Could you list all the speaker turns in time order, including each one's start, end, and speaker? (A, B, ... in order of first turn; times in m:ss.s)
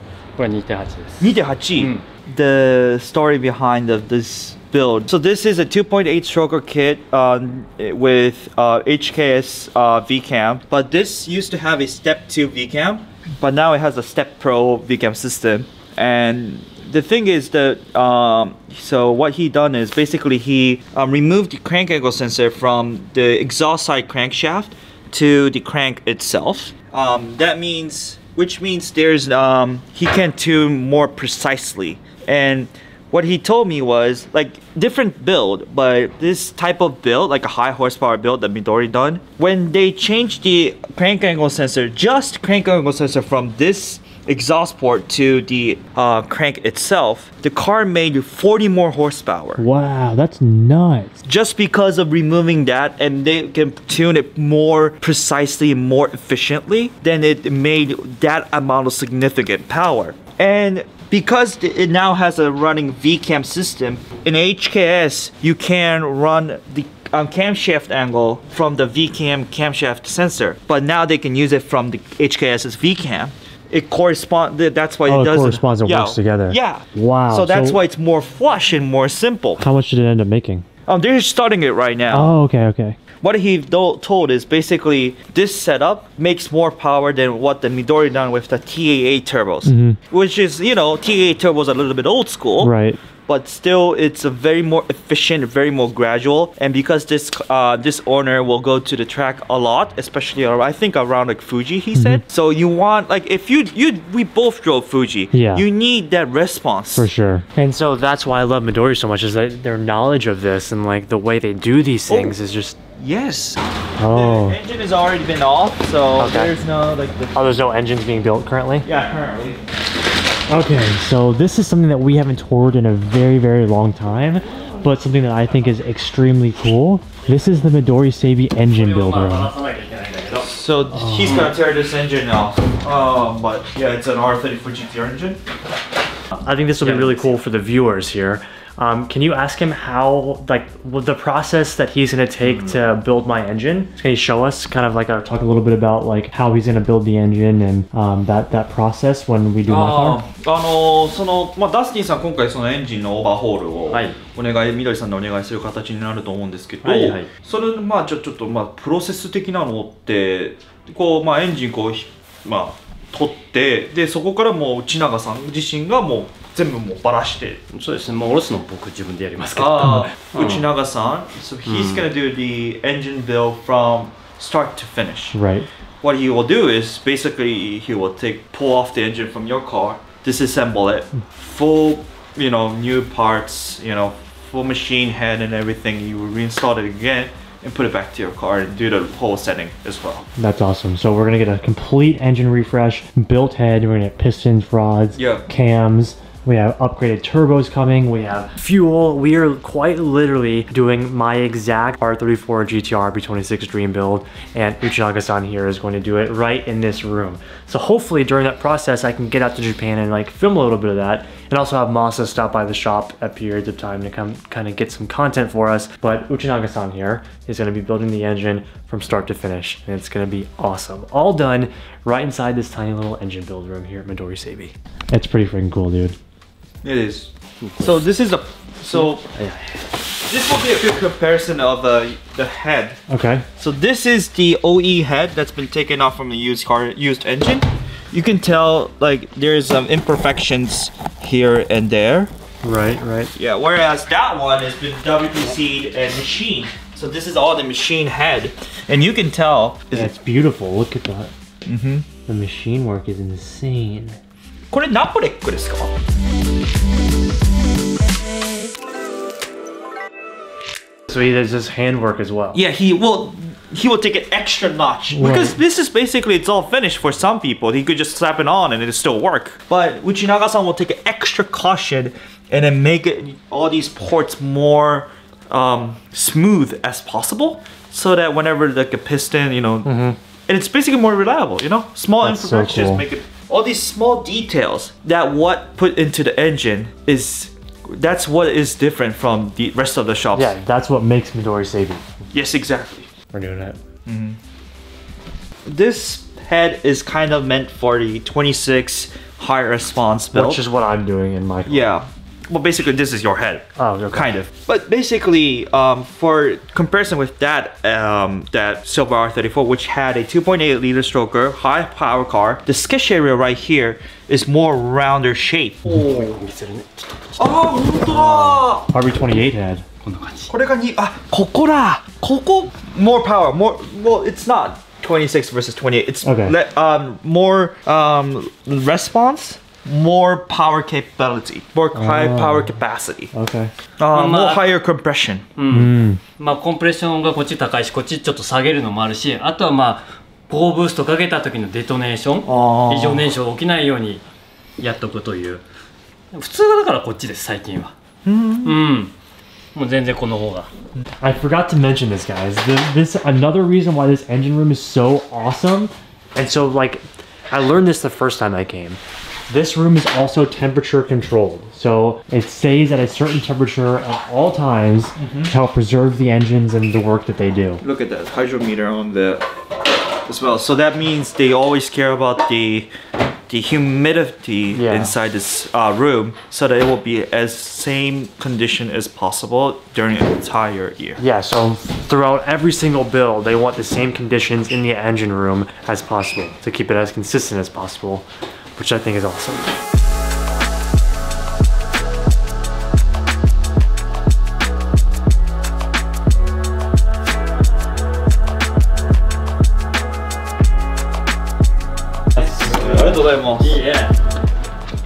0:00.4-0:02.0 A
0:01.2-0:49.6 B
0:49.6-0:51.2 C
0:51.2-1:19.6 B
1:15.0-1:17.8 C
1:19.6-1:20.6 C
1:20.9-1:22.3 B
1:22.1-1:23.0 C
1:23.2-1:32.7 B
1:29.6-1:30.0 C
1:32.6-1:33.0 C
1:33.3-1:47.1 B
1:41.9-1:42.2 C
1:45.3-1:45.6 C
1:46.9-1:52.8 C
1:52.1-1:52.4 B
1:53.0-1:57.6 B
1:54.0-1:54.6 C
1:56.2-1:56.5 C
1:57.3-1:58.9 C
1:58.8-1:59.6 B
2:00.5-2:09.5 C
2:08.7-2:10.5 A
2:10.3-2:15.4 B
2:10.9-2:11.4 C
2:11.2-2:11.5 A
2:16.4-2:30.2 C
2:16.8-2:17.4 A
2:22.4-2:22.8 A
2:29.6-2:47.6 B
2:33.9-2:34.2 A
2:36.8-2:37.3 A
2:47.7-2:50.6 A
2:49.6-2:55.4 B
2:51.7-2:51.9 A
2:55.3-2:55.7 C
2:56.0-3:10.3 B
3:10.4-3:46.2 C
3:15.2-3:15.4 B
3:46.8-3:49.2 B
3:50.2-3:53.0 B
3:53.1-3:53.4 C
3:53.6-4:02.3 B
4:02.6-4:03.3 C
4:03.3-4:10.1 B
4:09.9-4:11.3 C
4:11.6-4:12.0 B
4:12.3-4:14.2 C
4:14.7-4:15.9 B
4:21.1-4:22.6 C
4:22.5-4:50.5 B
4:25.1-4:25.6 C
4:39.8-4:40.2 C
4:42.2-4:43.0 C
4:50.3-4:52.0 C
4:52.3-4:53.1 B
4:53.3-4:53.8 C
4:54.0-4:54.4 B
4:55.6-5:00.6 B
5:00.3-5:01.9 C
5:01.7-5:16.3 B
5:03.8-5:04.3 C
5:15.8-5:17.7 A
5:17.4-5:18.9 B
5:18.1-5:19.8 C
5:20.0-5:20.5 A
5:20.5-5:33.3 B
5:26.2-5:26.6 C
5:31.9-5:32.8 C
5:33.3-5:33.7 C
5:34.0-5:35.4 B
5:34.1-5:34.6 A
5:35.6-5:44.2 A
5:35.7-5:36.2 C
5:42.4-5:43.3 B
5:44.8-5:45.6 A
5:46.3-5:47.9 A
5:48.2-5:48.8 B
5:48.6-5:49.1 A
5:49.7-5:50.7 A
5:51.2-6:07.8 C
6:05.2-6:05.5 B
6:07.8-6:09.5 B
6:10.2-6:12.9 B
6:13.5-6:21.2 B
6:14.7-6:15.2 C
6:21.2-6:29.7 C
6:42.4-6:44.1 A
6:42.5-6:43.8 B